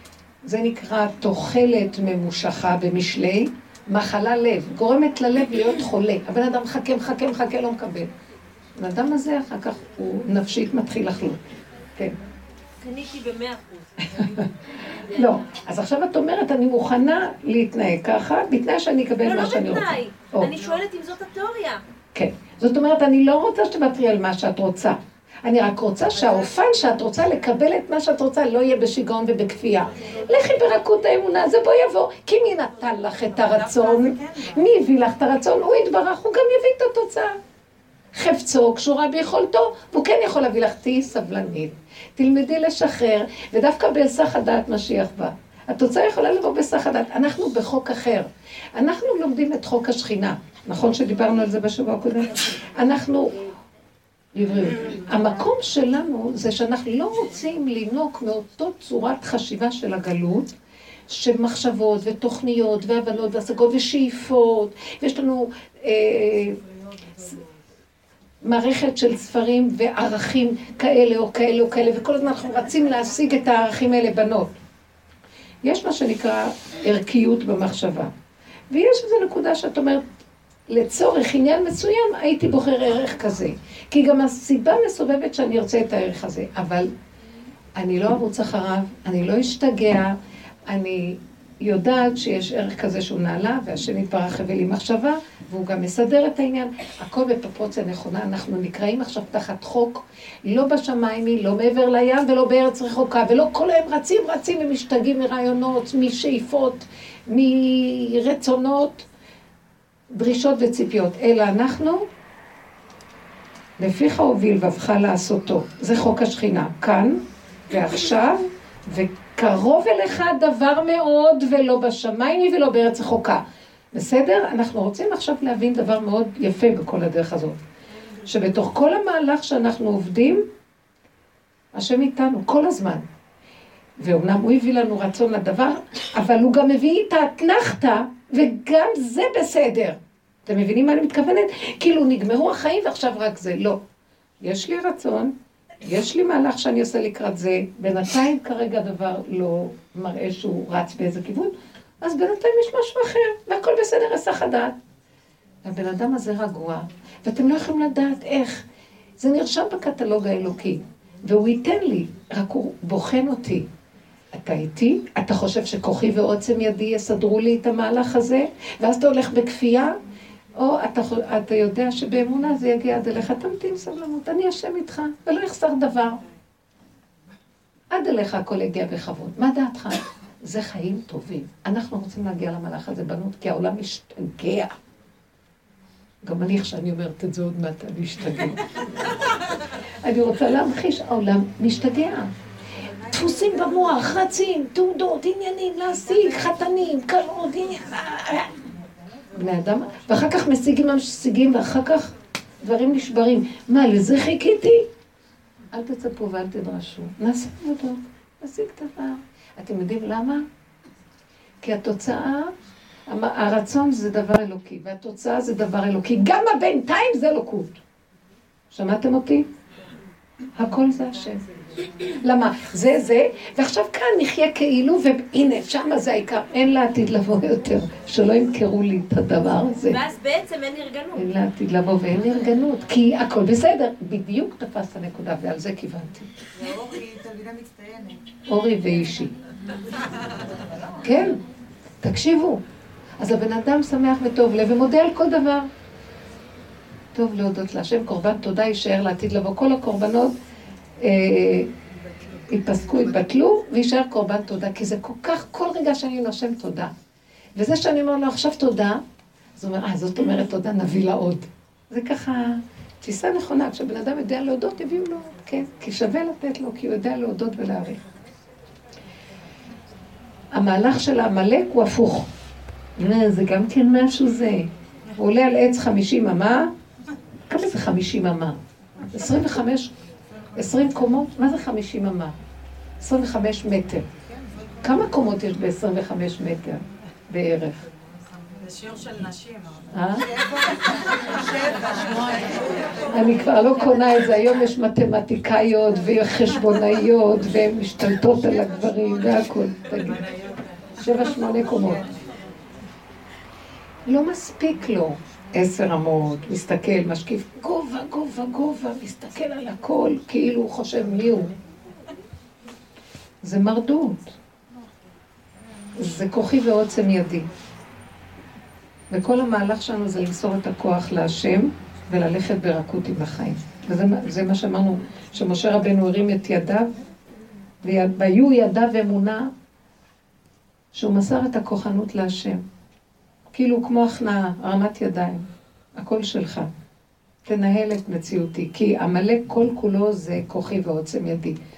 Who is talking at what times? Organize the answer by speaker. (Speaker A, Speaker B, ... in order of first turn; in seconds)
Speaker A: 0.4-8.1, 8.8-11.4, 15.1-20.5, 22.1-37.4, 38.1-53.4, 54.3-60.5, 61.1-66.6, 68.4-74.6, 75.6-78.1, 78.7-80.1, 80.7-86.9, 87.8-109.1, 110.1-112.1, 113.8-127.6, 128.2-130.4, 131.7-133.0, 134.0-143.8, 144.4-154.8, 155.6-158.6, 159.2-163.7, 164.3-170.0, 170.6-176.2, 177.9-184.8, 186.2-189.1, 190.0-192.3, 193.1-198.7, 199.3-204.9, 205.7-210.4, 211.6-212.5, 213.1-217.8, 218.7-219.5, 220.5-230.0, 231.1-236.3, 238.5-239.3, 241.0-241.4, 242.0-242.6, 243.2-245.7, 247.1-250.3, 251.0-251.7, 252.5-256.9, 257.5-259.0, 259.6-268.1, 270.5-272.3, 272.9-276.7, 277.5-278.6, 279.1-279.9, 280.5-282.4, 283.0-284.1, 284.8-287.9, 289.9-290.3, 293.1-300.2, 301.0-302.1, 304.1-311.5, 313.4-314.4, 315.9-317.5, 319.1-326.9, 327.8-329.5, 330.9-332.6, 333.5-336.7, 337.4-341.6
Speaker B: 12.8-14.4, 19.2-21.8, 229.9-231.3
Speaker C: 33.3-34.6, 192.9-193.7, 236.5-238.2, 240.5-241.1, 284.2-284.9, 288.3-293.4, 300.2-301.0